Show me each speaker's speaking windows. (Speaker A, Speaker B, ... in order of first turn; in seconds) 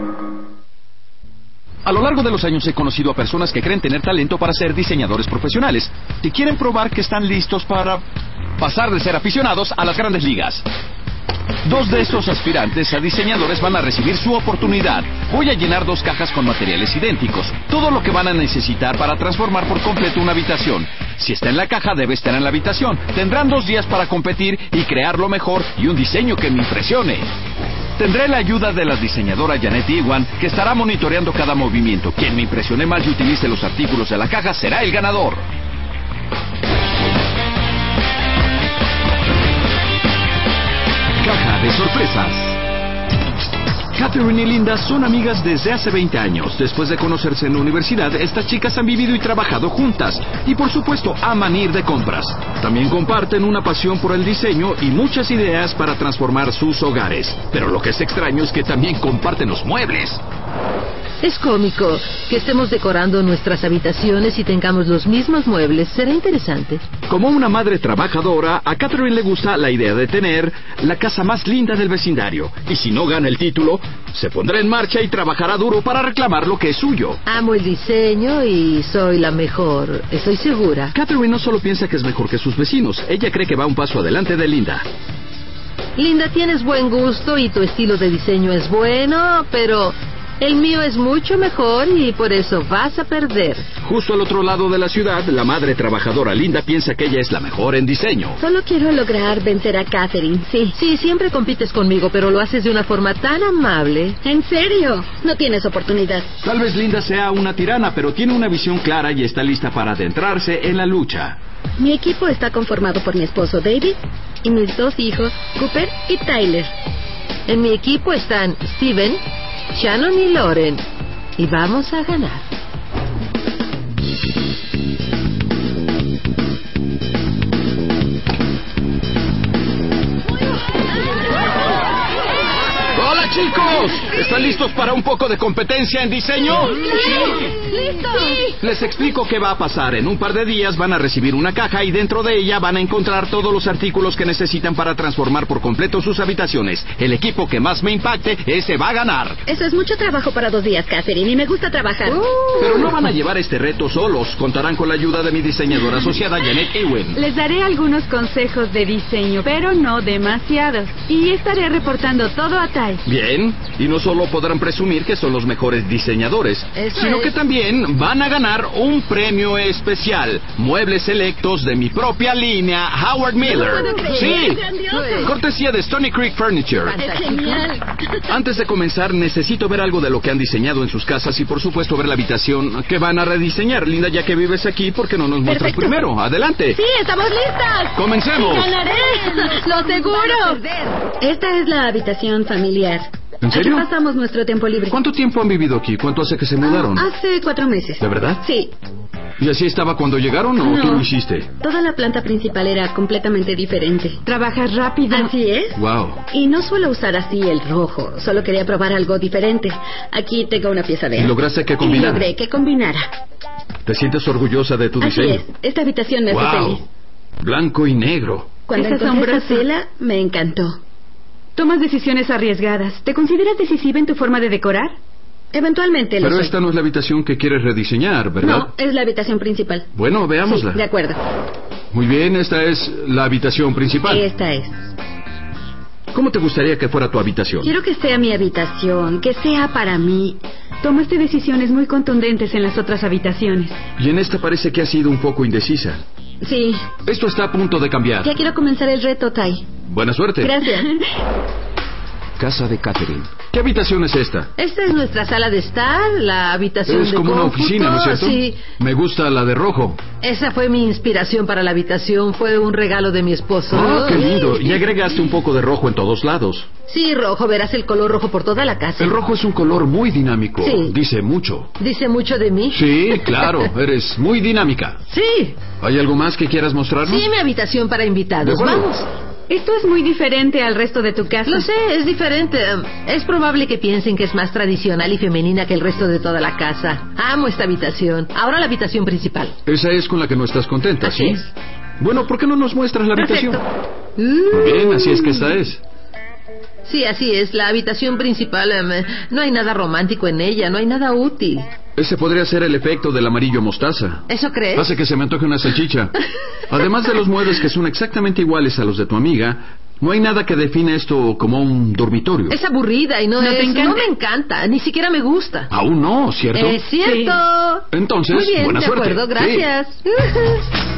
Speaker A: 1.8-8.0, 8.6-10.6, 11.6-27.3, 28.0-35.4, 41.2-42.6, 43.9-60.2, 67.1-77.2, 80.9-84.8, 93.8-98.4, 106.4-111.4, 132.9-137.5, 138.6-149.4, 152.6-157.2, 163.0-174.6, 175.2-177.0, 178.3-186.8, 187.9-188.8, 193.4-193.9, 194.9-197.1, 198.0-198.4, 199.4-201.5, 205.7-206.2, 211.2-212.3, 213.8-215.4, 216.3-216.8, 217.4-218.6, 226.2-228.7, 229.9-230.8, 231.9-234.2, 236.1-237.7, 244.0-246.0, 247.1-248.3, 249.8-250.6, 252.4-254.5, 256.9-260.0, 263.7-266.7, 269.0-271.7, 272.7-275.0, 275.8-277.3, 278.4-278.9, 289.6-293.6, 294.5-295.8, 301.9-312.6, 315.7-316.8, 317.9-319.6
Speaker B: 61.2-66.8, 77.2-80.9, 86.0-93.7, 100.7-104.2, 117.5-120.8, 121.4-122.5, 136.4-138.6, 152.0-153.0, 166.7-167.4, 173.5-175.3, 176.8-177.7, 188.8-191.0, 254.6-258.6, 260.2-264.8, 266.9-269.2, 270.6-270.9, 271.8-273.7, 275.1-275.6, 277.0-279.1, 281.4-289.6, 291.0-291.4, 293.1-293.6, 294.2-295.5, 296.8-301.7, 304.3-304.9, 312.5-315.7, 316.5-320.6
Speaker C: 98.4-100.8, 104.2-106.3, 111.8-116.7, 149.5-152.3, 173.4-175.3, 177.0-178.2, 185.4-186.0, 186.7-190.6, 191.2-195.0, 196.6-198.7, 200.6-201.1, 201.6-204.2, 205.1-205.8, 206.3-213.1, 215.0-216.8, 218.7-220.8, 225.5-226.5, 228.4-229.9, 230.4-231.2, 234.0-234.8, 237.6-240.4, 246.4-246.8, 248.2-249.7, 250.4-250.9
Speaker D: 157.1-163.0, 204.2-205.3, 218.7-219.6, 221.6-224.9, 240.8-243.8, 279.5-281.7, 313.4-314.1, 317.0-317.4